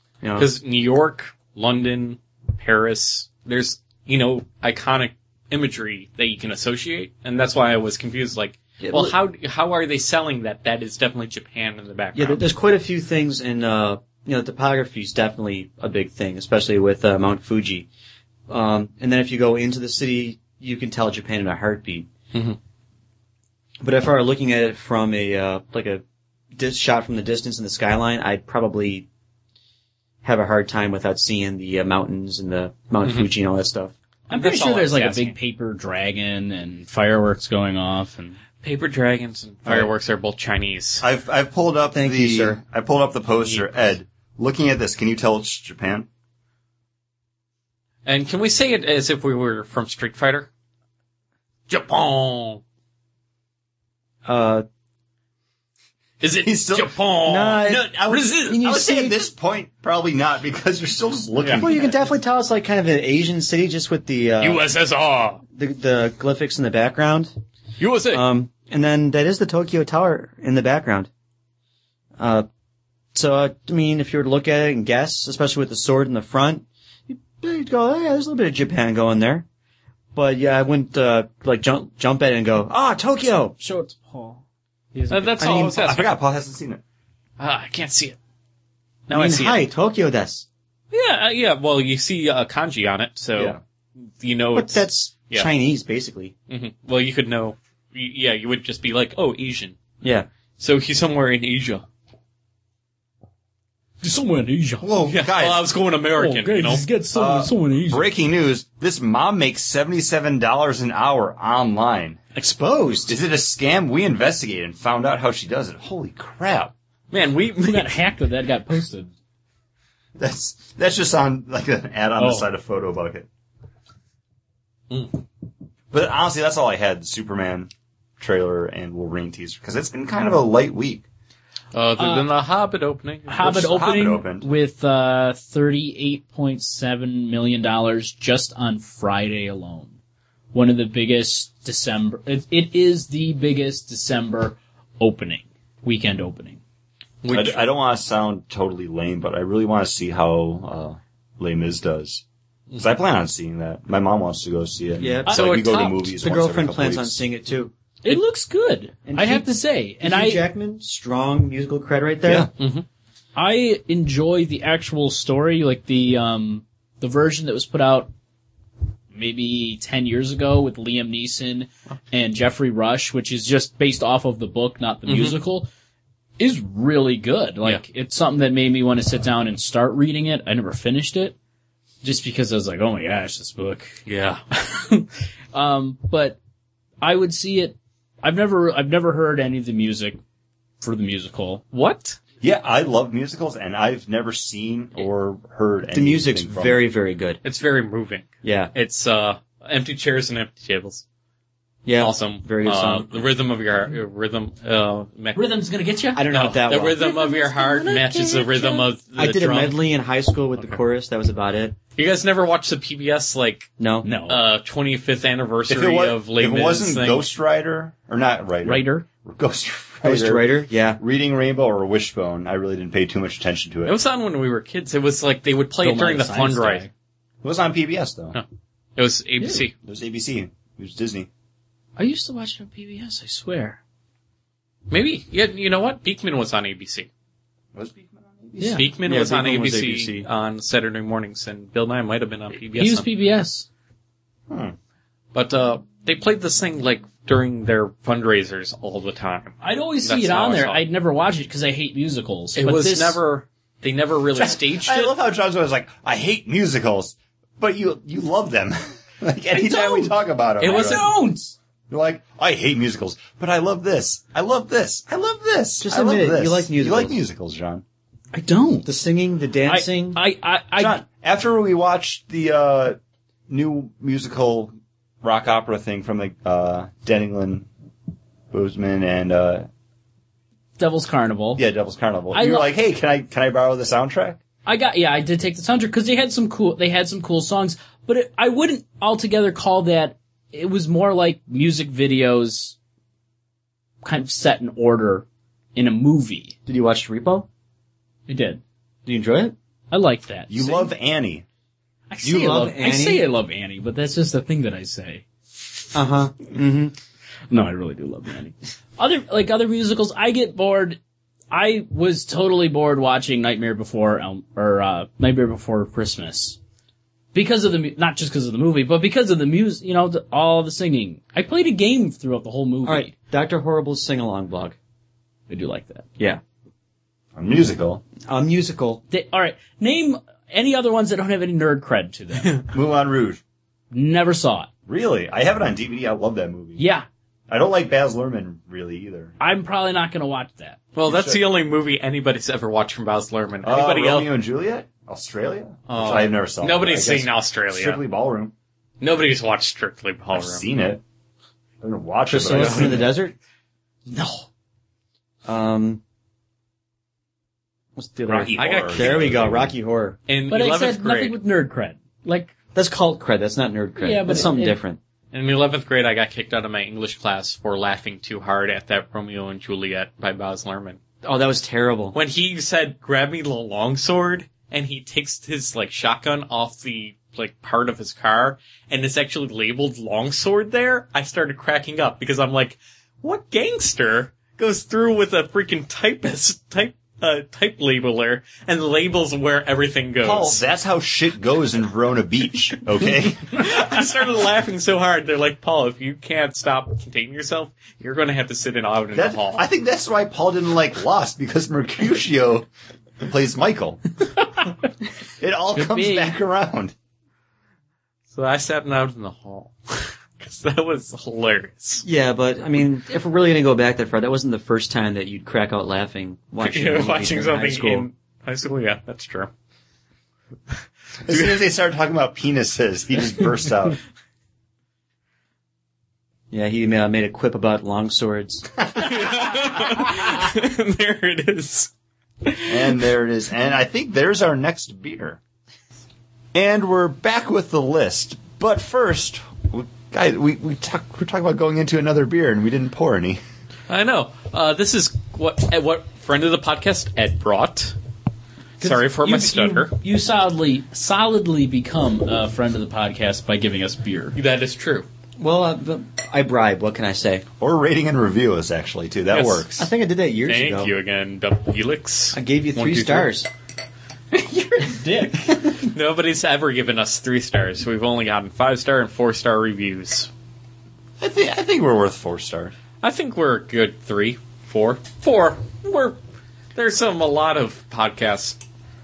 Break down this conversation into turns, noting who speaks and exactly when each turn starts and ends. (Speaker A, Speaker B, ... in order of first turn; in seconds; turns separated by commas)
Speaker A: 0.2-0.5, Speaker B: 0.3-12.4, Speaker A: 8.8-9.1, Speaker A: 12.1-17.9, Speaker A: 18.5-22.1, Speaker A: 23.8-26.0, Speaker A: 26.5-29.1, Speaker A: 30.2-33.9, Speaker B: 33.0-33.3, Speaker B: 34.3-35.3, Speaker C: 34.3-38.4, Speaker B: 38.6-41.0, Speaker D: 39.6-39.9, Speaker D: 41.0-46.1, Speaker A: 41.9-42.6, Speaker B: 48.0-50.5, Speaker B: 51.7-52.6, Speaker A: 54.2-54.6, Speaker B: 56.2-58.6, Speaker D: 56.4-57.0, Speaker A: 57.2-59.2, Speaker D: 57.6-62.0, Speaker B: 61.4-61.7, Speaker A: 61.6-64.7, Speaker B: 64.4-65.4, Speaker A: 65.5-67.3, Speaker B: 67.8-68.2, Speaker A: 68.1-71.1, Speaker A: 72.2-72.5, Speaker A: 73.1-79.5, Speaker A: 80.1-83.5, Speaker C: 83.6-84.4, Speaker C: 84.9-85.6, Speaker B: 85.1-86.1, Speaker A: 85.4-85.8, Speaker D: 85.8-86.8, Speaker B: 87.4-88.2, Speaker B: 89.1-89.6, Speaker A: 89.1-90.5, Speaker B: 90.9-95.5, Speaker A: 94.5-96.3, Speaker B: 96.5-99.8, Speaker A: 100.0-100.3, Speaker B: 100.6-101.8, Speaker C: 104.0-104.9, Speaker D: 104.8-105.7, Speaker B: 105.1-106.9, Speaker C: 106.2-108.1, Speaker D: 107.1-112.2, Speaker A: 112.3-113.1, Speaker D: 113.1-116.7, Speaker B: 117.1-118.0, Speaker C: 117.6-119.1, Speaker D: 120.2-123.3, Speaker C: 122.2-122.5, Speaker D: 125.9-131.1, Speaker B: 131.7-133.6, Speaker C: 132.0-132.3, Speaker C: 133.3-139.9, Speaker D: 133.4-134.5, Speaker C: 140.5-146.6, Speaker B: 147.2-147.7, Speaker D: 147.3-152.2, Speaker D: 152.8-157.2, Speaker A: 155.0-155.6, Speaker B: 155.3-156.1, Speaker A: 156.2-157.7, Speaker C: 158.0-160.4, Speaker A: 159.1-159.5, Speaker A: 160.0-162.5, Speaker D: 162.2-162.5, Speaker B: 162.6-162.8, Speaker C: 163.3-168.1, Speaker C: 169.1-175.7, Speaker B: 175.1-175.4, Speaker C: 176.4-181.3, Speaker C: 182.0-184.0, Speaker B: 184.1-184.4, Speaker C: 184.5-186.4, Speaker C: 187.0-190.2, Speaker C: 190.8-191.6, Speaker B: 191.7-192.2, Speaker D: 192.4-196.8, Speaker A: 195.9-197.4, Speaker B: 197.4-201.0, Speaker A: 198.4-198.7, Speaker A: 201.8-203.2, Speaker B: 201.9-205.5, Speaker C: 205.3-206.2, Speaker A: 206.1-207.2, Speaker B: 206.3-209.8, Speaker C: 207.0-208.8, Speaker A: 209.2-211.8, Speaker B: 211.9-213.7, Speaker A: 213.8-214.1, Speaker C: 214.0-214.4, Speaker B: 214.3-217.3, Speaker D: 215.7-224.0, Speaker C: 218.6-219.1, Speaker A: 220.0-221.0, Speaker B: 223.8-226.8, Speaker C: 225.8-226.9, Speaker D: 227.4-228.4, Speaker B: 228.9-229.7, Speaker D: 229.8-231.3, Speaker C: 232.0-233.8, Speaker B: 234.9-237.1, Speaker D: 237.7-238.9, Speaker C: 238.6-238.8, Speaker B: 238.7-243.1, Speaker A: 239.0-240.3, Speaker C: 242.7-243.7, Speaker D: 244.5-244.8, Speaker B: 245.3-250.8, Speaker C: 249.6-253.2, Speaker B: 252.6-255.1, Speaker D: 254.3-261.1, Speaker C: 259.5-261.6, Speaker B: 260.6-261.1, Speaker D: 261.9-267.8, Speaker A: 265.8-267.2, Speaker C: 268.3-268.9, Speaker A: 268.8-270.2, Speaker C: 269.6-271.0, Speaker D: 270.8-273.0, Speaker D: 273.5-277.7, Speaker D: 278.5-279.7, Speaker C: 280.8-281.6, Speaker D: 281.6-284.4, Speaker C: 282.3-282.7, Speaker C: 284.6-292.8, Speaker C: 294.0-296.6, Speaker A: 296.6-297.5, Speaker C: 298.3-298.6, Speaker A: 299.1-299.5, Speaker C: 299.9-300.9, Speaker D: 300.5-301.4, Speaker C: 302.1-305.2, Speaker A: 302.2-303.3, Speaker A: 305.9-306.9, Speaker C: 307.5-311.0, Speaker C: 311.5-316.6, Speaker C: 317.3-323.1, Speaker A: 322.8-324.8, Speaker C: 325.5-326.1, Speaker D: 327.3-328.0, Speaker A: 328.3-329.0, Speaker C: 329.1-332.6, Speaker D: 332.7-333.4, Speaker C: 333.9-334.7, Speaker D: 334.9-336.8, Speaker C: 336.8-337.1, Speaker D: 337.5-339.3, Speaker C: 339.4-340.8, Speaker B: 340.9-344.3, Speaker D: 341.0-341.4, Speaker D: 343.6-348.5, Speaker B: 345.9-348.0, Speaker B: 349.0-350.6, Speaker D: 350.3-351.0, Speaker D: 351.8-353.1, Speaker A: 352.3-353.3, Speaker B: 352.5-353.1, Speaker C: 354.1-354.5, Speaker A: 355.4-356.0, Speaker A: 357.9-360.2, Speaker D: 358.3-359.7, Speaker B: 358.5-359.4, Speaker B: 360.3-361.4, Speaker C: 360.5-362.5, Speaker A: 362.7-365.0, Speaker C: 364.0-364.8, Speaker B: 365.3-371.0, Speaker A: 371.2-372.1, Speaker B: 372.1-390.6, Speaker D: 390.2-393.6, Speaker B: 393.5-399.6, Speaker D: 399.1-402.7, Speaker D: 403.2-404.0, Speaker D: 405.4-406.9, Speaker C: 405.7-406.4, Speaker B: 408.3-412.1, Speaker A: 412.0-418.1, Speaker B: 416.6-419.5, Speaker D: 421.2-424.0, Speaker B: 421.3-421.6, Speaker A: 426.5-428.7, Speaker B: 428.9-431.9, Speaker B: 432.4-433.0, Speaker D: 432.7-435.4, Speaker D: 436.5-443.4, Speaker B: 443.9-447.9, Speaker B: 448.8-449.9, Speaker C: 448.8-454.4, Speaker B: 454.3-455.1, Speaker A: 455.4-457.4, Speaker D: 457.6-459.9, Speaker B: 459.3-459.7, Speaker A: 459.8-460.9, Speaker B: 460.4-463.3, Speaker A: 462.3-463.5, Speaker C: 464.3-465.6, Speaker B: 465.6-470.3, Speaker D: 471.2-472.7, Speaker B: 473.0-476.2, Speaker B: 476.7-478.6